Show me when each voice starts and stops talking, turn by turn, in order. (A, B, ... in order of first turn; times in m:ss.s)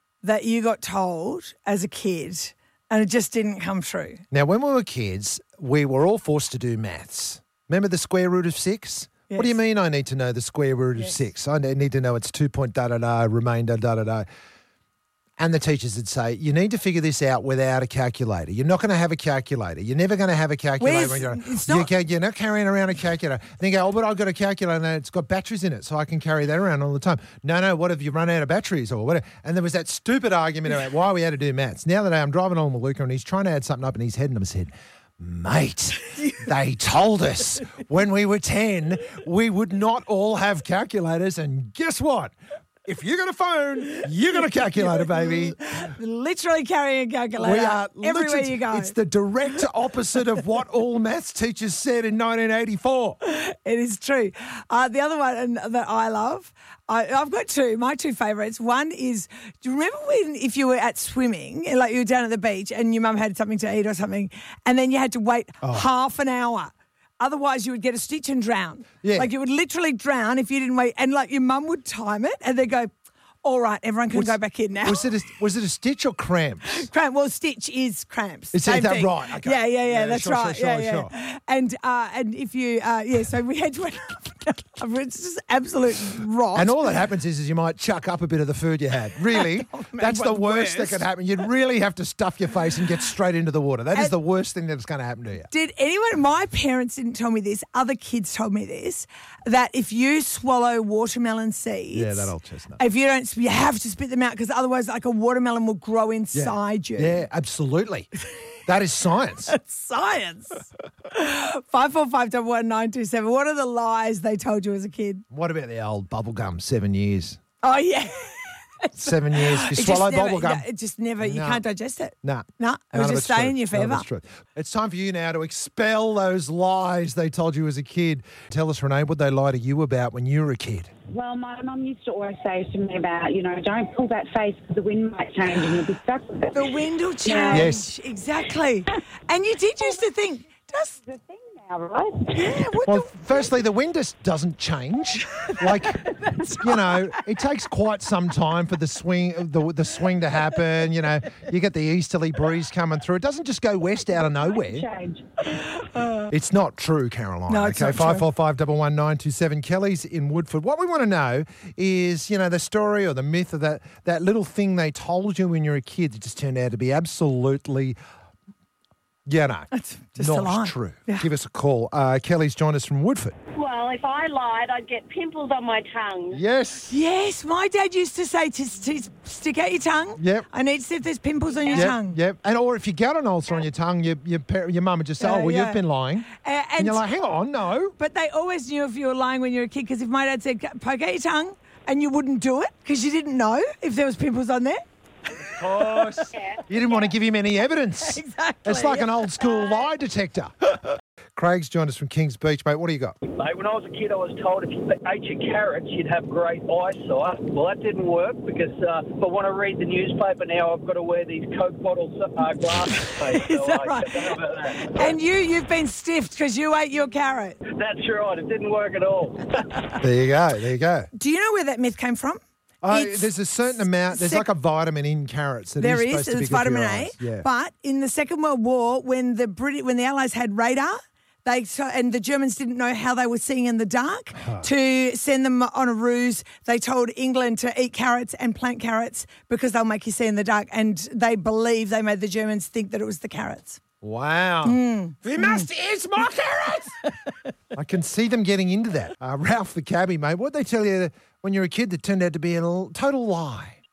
0:00.2-0:04.2 A
0:04.3-0:14.3 B
0:09.3-0:09.6 A
0:15.4-0:42.3 B
0:20.8-0:21.9 A
0:42.8-0:45.6 B
0:44.8-0:48.9 A
0:47.4-0:53.2 B
0:53.2-1:12.9 A
1:09.0-1:09.3 B
1:13.4-1:15.1 A
1:14.1-1:16.9 B
1:16.7-1:26.8 A
1:18.5-1:21.1 B
1:26.5-1:35.5 B
1:29.3-1:31.1 A
1:35.5-1:47.2 A
1:41.9-1:42.8 B
1:46.3-1:48.1 B
1:48.7-1:49.5 B
1:49.5-1:55.2 A
1:55.3-1:57.4 B
1:57.6-2:04.0 A
1:59.0-2:00.7 B
2:01.2-2:01.6 B
2:02.2-2:10.9 B
2:11.1-2:16.7 C
2:16.5-2:21.0 A
2:17.3-2:17.6 C
2:17.5-2:17.8 B
2:21.1-2:22.3 C
2:22.3-2:23.5 A
2:22.9-2:34.8 B
2:25.4-2:27.2 A
2:34.3-2:35.2 C
2:35.6-2:36.3 A
2:36.3-2:48.0 B
2:37.5-2:38.2 A
2:49.3-2:53.4 B
2:49.7-2:51.2 A
2:53.6-2:56.4 D
2:56.3-2:57.0 B
2:56.9-3:02.2 A
3:00.2-3:00.5 B
3:01.7-3:08.0 B
3:05.2-3:07.1 A
3:08.0-3:14.8 A
3:15.4-3:15.9 A
3:15.6-3:20.7 B
3:16.1-3:17.1 D
3:18.0-3:19.4 A
3:21.4-3:23.2 B
3:23.3-3:35.1 E
3:33.3-3:37.6 A
3:37.7-3:39.6 E
3:40.0-3:41.1 B
3:41.2-3:44.5 A
3:42.8-3:47.5 B
3:45.8-4:03.8 A
3:54.4-3:54.6 B
4:04.0-4:07.0 B
4:04.6-4:05.7 A
4:07.7-4:13.8 B